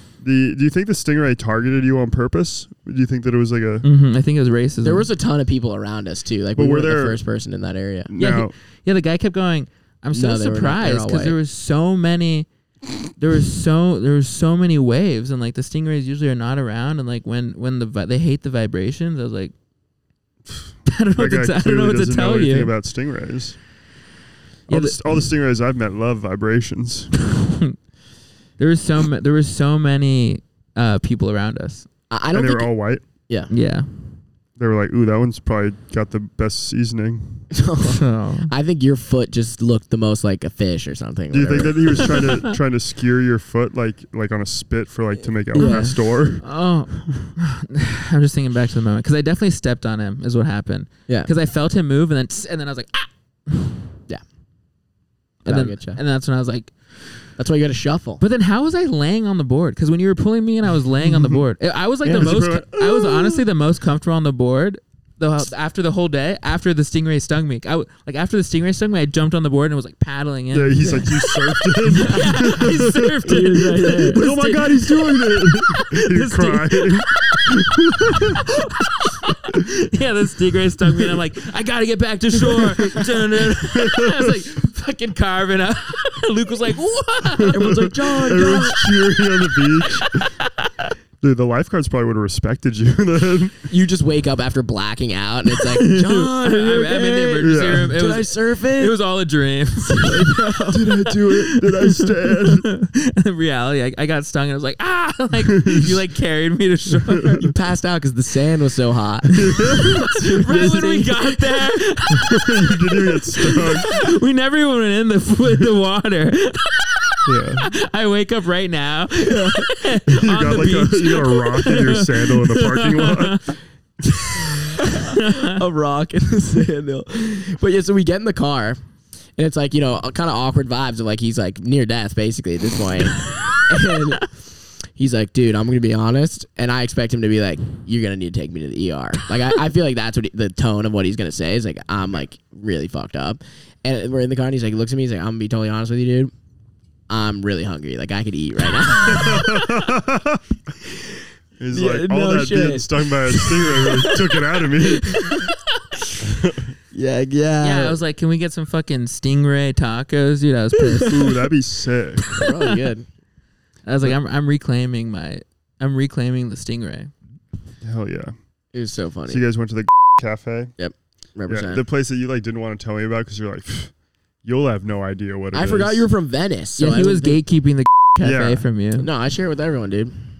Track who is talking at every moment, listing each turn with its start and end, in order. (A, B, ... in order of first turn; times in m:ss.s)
0:00.2-0:03.8 A
0:03.8-0:05.1 B
0:04.8-0:08.1 C
0:06.5-0:07.2 A
0:08.1-0:08.5 A
0:08.2-0:12.5 B
0:10.1-0:11.4 C
0:13.2-0:19.5 B
0:20.8-0:22.7 B
0:21.2-0:23.6 A
0:24.7-0:25.0 B
0:24.7-0:27.1 A
0:27.4-0:27.7 B
0:28.6-0:31.9 B
0:32.1-0:32.7 C
0:32.3-0:33.0 A
0:33.5-0:33.9 B
0:34.6-0:37.4 A
0:37.5-0:42.2 C
0:37.9-0:38.5 B
0:41.3-0:47.3 A
0:45.5-0:45.9 C
0:45.5-0:53.8 B
0:55.4-0:56.0 C
0:55.4-0:56.7 B
0:57.4-0:58.2 C
0:58.2-1:11.3 B
1:01.0-1:01.4 A
1:02.0-1:03.4 A
1:10.5-1:18.4 A
1:11.8-1:27.8 B
1:13.2-1:14.2 C
1:20.8-1:21.2 A
1:22.4-1:24.5 A
1:27.4-1:30.2 A
1:27.5-1:28.8 C
1:30.0-1:30.9 B
1:31.2-1:33.6 A
1:33.7-1:39.0 C
1:35.5-1:47.5 B
1:37.4-1:37.9 A
1:39.9-1:40.9 C
1:40.7-1:42.7 A
1:45.4-1:46.0 A
1:47.0-1:47.5 A
1:47.4-1:51.8 C
1:49.4-1:51.0 A
1:49.5-1:52.5 B
1:52.2-1:54.0 A
1:53.3-2:03.5 B
1:57.2-1:57.7 A
1:59.2-1:59.7 C
2:00.1-2:03.4 A
2:04.6-2:08.8 C
2:05.0-2:05.5 B
2:09.4-2:14.4 C
2:13.3-2:14.0 B
2:15.0-2:26.3 C
2:27.1-2:29.7 C
2:29.0-2:30.4 A
2:31.6-2:35.4 A
2:31.7-2:35.5 C
2:36.2-2:36.7 A
2:36.9-2:38.0 C
2:37.6-2:41.2 B
2:40.9-2:41.3 C
2:41.0-2:42.4 A
2:42.3-2:43.0 C
2:43.8-2:47.1 B
2:47.8-2:48.3 A
2:48.7-2:49.4 C
2:49.3-2:50.7 A
2:50.8-2:51.8 C
2:51.5-2:53.9 A
2:54.4-2:56.1 A
2:55.5-2:57.4 C
2:56.8-2:59.1 B
2:58.2-2:58.6 A
2:59.0-3:00.1 C